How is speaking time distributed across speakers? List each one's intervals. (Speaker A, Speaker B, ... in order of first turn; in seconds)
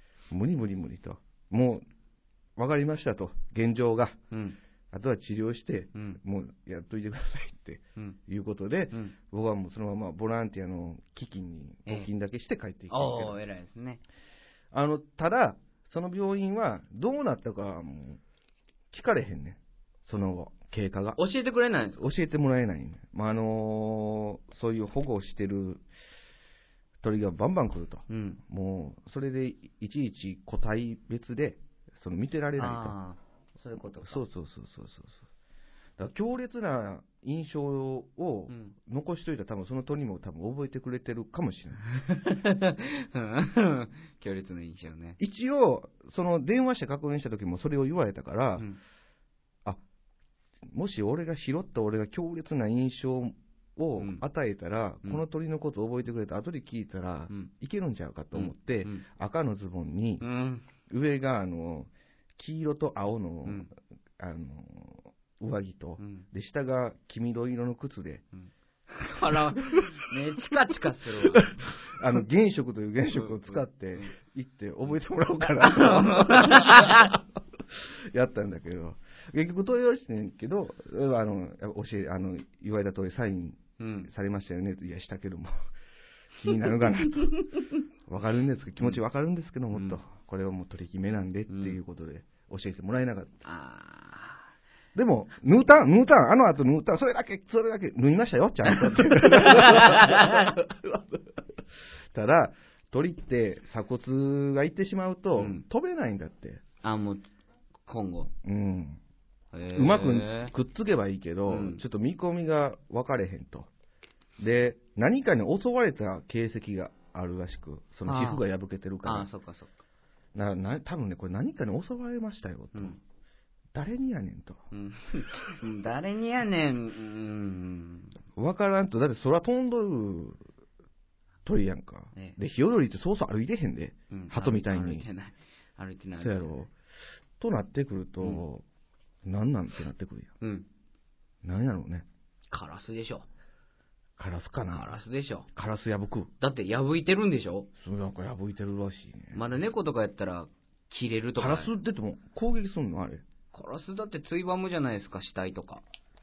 Speaker A: 0.3-1.8, 2.6-4.2, 4.9-13.4, 14.7-18.2, 18.9-21.2, 22.0-25.8, 27.0-33.0, 34.0-35.2, 36.0-41.8, 45.2-48.6, 50.7-60.2, 60.9-68.2, 71.1-85.5, 86.4-87.4, 88.1-93.5, 94.9-101.4, 102.1-106.6, 108.4-109.0, 109.7-113.7, 114.4-119.3, 120.3-123.0, 123.7-124.6, 128.3-130.4, 131.4-135.0, 136.2-136.7, 137.4-138.6, 139.2-140.3, 141.4-142.1, 144.2-145.0, 145.5-146.3, 147.8-149.4, 151.4-153.2
Speaker B: 4.3-4.6, 5.9-6.2, 12.9-14.0, 21.2-22.0, 28.1-28.4, 32.6-34.2, 38.5-38.7, 41.9-45.2, 54.0-54.2, 58.3-59.0, 60.2-60.6, 66.0-66.2, 68.4-71.6, 73.2-74.1, 75.6-77.1, 83.8-84.1, 89.7-90.0, 91.5-91.8, 93.4-94.4, 99.1-100.5, 105.4-105.6, 106.8-107.3, 107.8-108.3, 109.5-110.5, 111.5-111.8, 118.0-118.4, 119.0-119.8, 124.7-128.1, 134.1-136.5, 140.4-140.7, 142.5-143.2, 144.7-145.5, 146.4-147.7, 149.3-151.7, 153.5-155.8